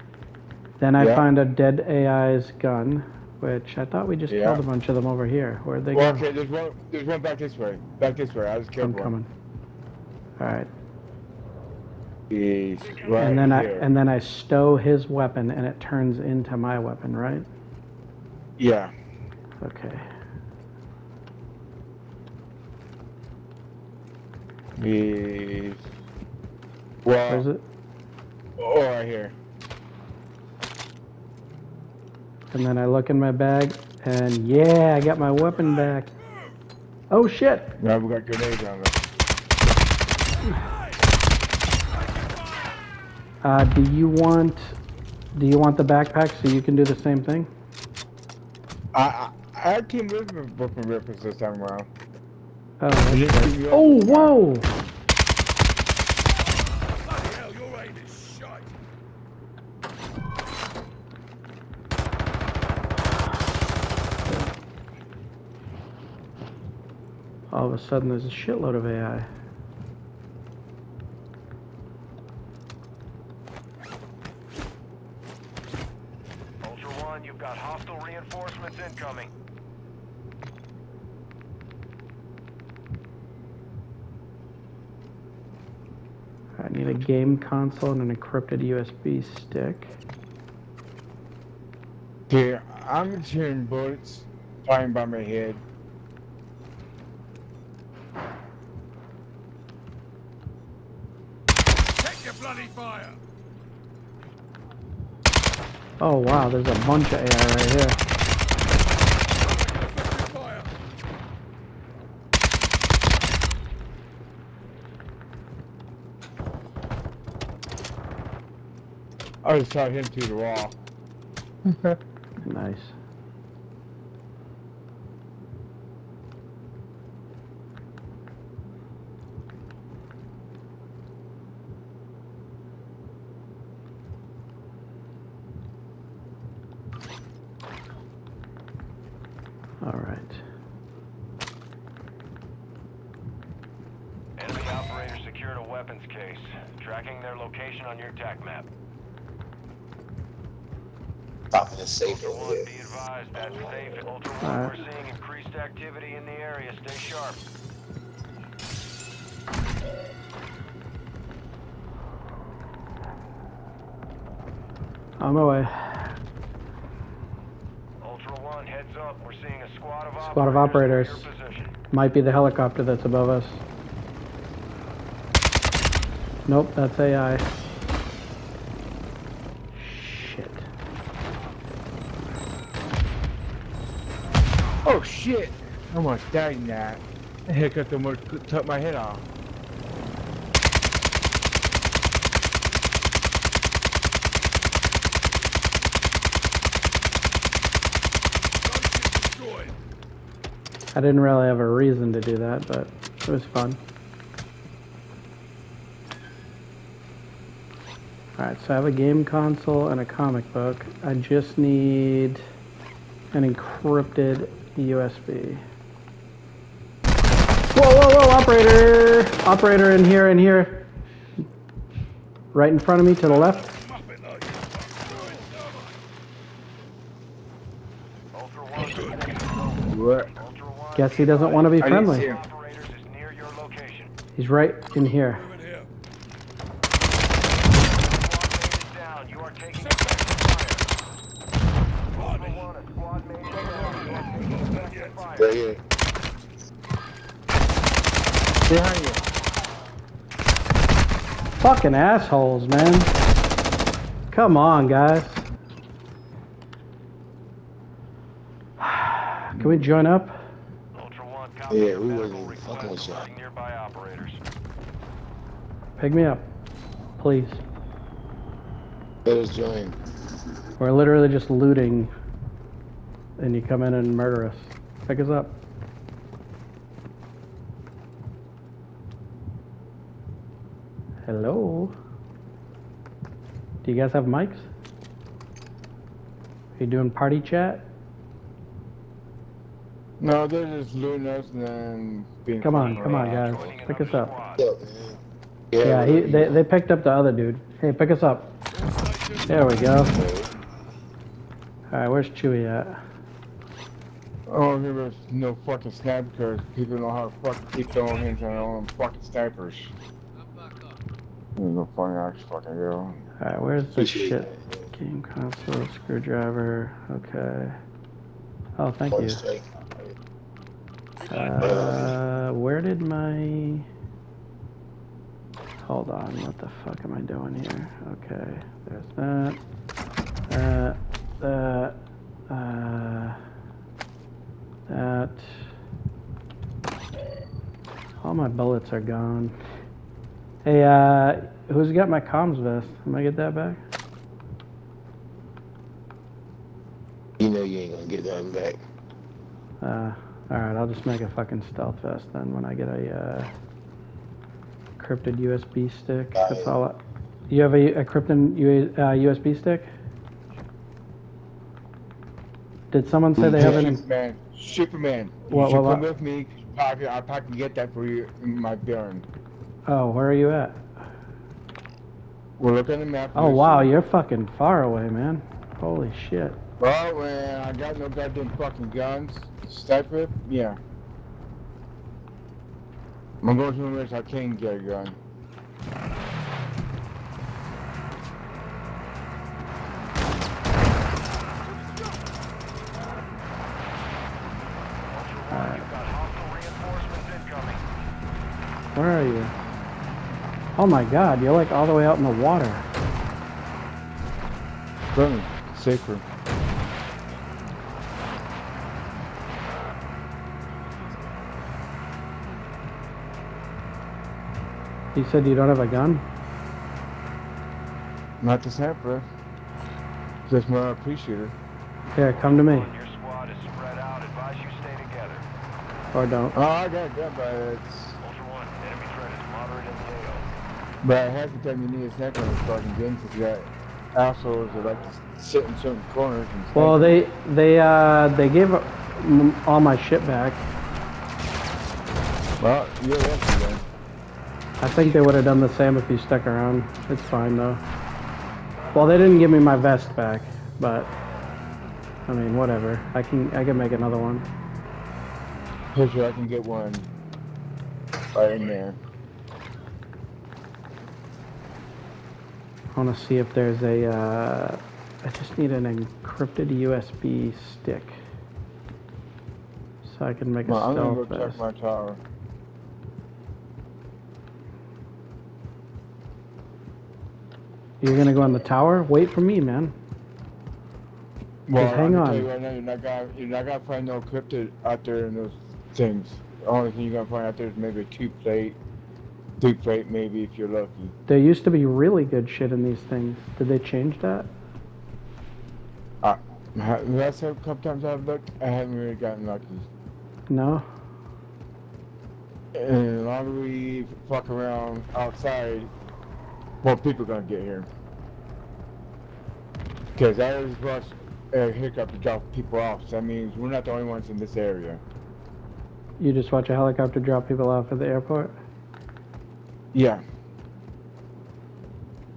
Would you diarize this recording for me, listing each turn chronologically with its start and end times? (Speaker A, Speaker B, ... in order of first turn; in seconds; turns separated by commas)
Speaker A: 0.8-6.2, Speaker B: 1.0-1.3, Speaker B: 4.3-4.6, Speaker B: 5.9-9.2, Speaker A: 8.8-9.3, Speaker A: 10.4-10.7, Speaker B: 12.3-13.9, Speaker A: 13.2-17.4, Speaker B: 18.6-18.9, Speaker A: 19.6-20.1, Speaker B: 24.8-25.8, Speaker B: 27.0-27.4, Speaker A: 27.3-27.6, Speaker B: 28.6-29.3, Speaker A: 32.5-36.1, Speaker C: 35.4-36.5, Speaker A: 37.1-37.7, Speaker B: 37.8-39.0, Speaker C: 40.4-41.0, Speaker C: 41.9-42.8, Speaker A: 43.4-44.7, Speaker A: 45.3-47.5, Speaker B: 48.9-51.9, Speaker A: 52.8-54.7, Speaker B: 53.1-54.4, Speaker C: 56.4-58.7, Speaker A: 67.5-69.3, Speaker D: 76.6-79.3, Speaker A: 86.6-89.9, Speaker B: 92.3-95.6, Speaker C: 102.0-103.2, Speaker A: 106.0-108.0, Speaker C: 109.3-110.7, Speaker B: 119.4-120.8, Speaker B: 121.6-122.0, Speaker A: 122.4-122.9, Speaker A: 139.8-140.4, Speaker D: 144.4-148.7, Speaker E: 151.5-152.7, Speaker D: 152.0-157.4, Speaker E: 153.4-154.0, Speaker A: 154.4-154.8, Speaker A: 165.2-166.1, Speaker D: 168.0-171.7, Speaker A: 170.2-171.3, Speaker A: 171.9-173.6, Speaker A: 176.5-177.4, Speaker A: 179.7-180.7, Speaker B: 184.8-189.2, Speaker C: 198.6-199.7, Speaker A: 200.9-203.8, Speaker A: 208.4-212.4, Speaker A: 213.3-215.6, Speaker A: 217.7-220.9, Speaker A: 222.5-223.7, Speaker C: 223.2-226.0, Speaker D: 228.3-234.1, Speaker C: 228.7-229.4, Speaker B: 229.9-230.3, Speaker A: 230.9-232.3, Speaker B: 231.8-232.4, Speaker A: 234.3-235.5, Speaker C: 235.3-235.9, Speaker D: 237.7-240.8, Speaker C: 239.7-240.4, Speaker D: 242.1-245.5, Speaker C: 242.2-242.7, Speaker C: 243.4-245.2, Speaker E: 245.3-245.8, Speaker B: 248.7-249.2, Speaker A: 251.6-253.1, Speaker A: 254.3-255.4, Speaker A: 258.8-260.4, Speaker D: 260.9-264.4, Speaker E: 261.7-263.2, Speaker A: 266.0-266.4, Speaker A: 267.2-267.6, Speaker E: 269.2-270.0, Speaker A: 270.8-272.1, Speaker A: 273.4-275.6, Speaker A: 281.2-281.9, Speaker A: 283.8-284.7, Speaker A: 286.8-287.9, Speaker B: 290.2-293.6, Speaker A: 292.6-294.3, Speaker D: 292.8-294.6, Speaker E: 294.6-295.2, Speaker E: 295.7-296.6, Speaker A: 295.8-298.5, Speaker C: 298.7-300.6, Speaker A: 299.5-300.1, Speaker E: 300.1-300.5, Speaker A: 301.9-303.0, Speaker B: 304.5-309.9, Speaker C: 307.9-308.7, Speaker C: 310.4-311.0, Speaker B: 311.6-313.2, Speaker A: 313.4-317.8, Speaker E: 313.9-314.9, Speaker A: 318.8-319.4, Speaker E: 319.1-320.1, Speaker C: 321.2-322.1, Speaker A: 321.3-323.9, Speaker E: 321.6-322.1, Speaker A: 325.8-329.6, Speaker A: 330.5-331.9, Speaker A: 332.5-333.4, Speaker A: 334.9-335.6, Speaker A: 338.2-339.6, Speaker A: 340.6-343.8, Speaker E: 347.4-348.8, Speaker A: 349.8-353.5, Speaker A: 355.0-357.0, Speaker E: 356.3-356.7, Speaker A: 357.5-359.9, Speaker A: 362.9-364.0, Speaker E: 363.4-363.9, Speaker B: 363.5-369.2, Speaker A: 365.5-366.0, Speaker A: 369.9-370.8, Speaker B: 372.6-373.9, Speaker A: 373.3-376.6, Speaker B: 376.8-380.8, Speaker B: 383.4-385.2, Speaker C: 391.7-392.2, Speaker D: 395.1-397.8, Speaker A: 395.5-395.8, Speaker A: 398.9-399.5, Speaker A: 400.8-402.9, Speaker B: 405.1-406.2, Speaker A: 415.1-416.2, Speaker B: 418.4-419.2, Speaker B: 420.5-421.5, Speaker A: 422.1-422.9, Speaker D: 422.4-425.4, Speaker A: 426.1-426.6, Speaker B: 426.5-428.2, Speaker D: 428.2-430.4, Speaker B: 431.0-437.2, Speaker A: 436.7-440.6, Speaker B: 442.6-443.8, Speaker A: 444.8-447.8, Speaker A: 448.9-451.1, Speaker A: 452.3-454.4, Speaker B: 455.9-457.1, Speaker B: 458.3-459.0, Speaker A: 462.9-468.2, Speaker A: 470.0-471.6, Speaker B: 470.6-472.2, Speaker A: 478.0-479.9, Speaker B: 481.7-488.8, Speaker A: 481.8-482.5, Speaker B: 489.6-491.1, Speaker A: 491.3-494.5, Speaker B: 496.2-499.9, Speaker A: 500.5-500.8, Speaker B: 502.7-505.9, Speaker B: 506.8-507.9, Speaker B: 510.1-515.0, Speaker A: 516.2-518.5, Speaker B: 519.9-520.2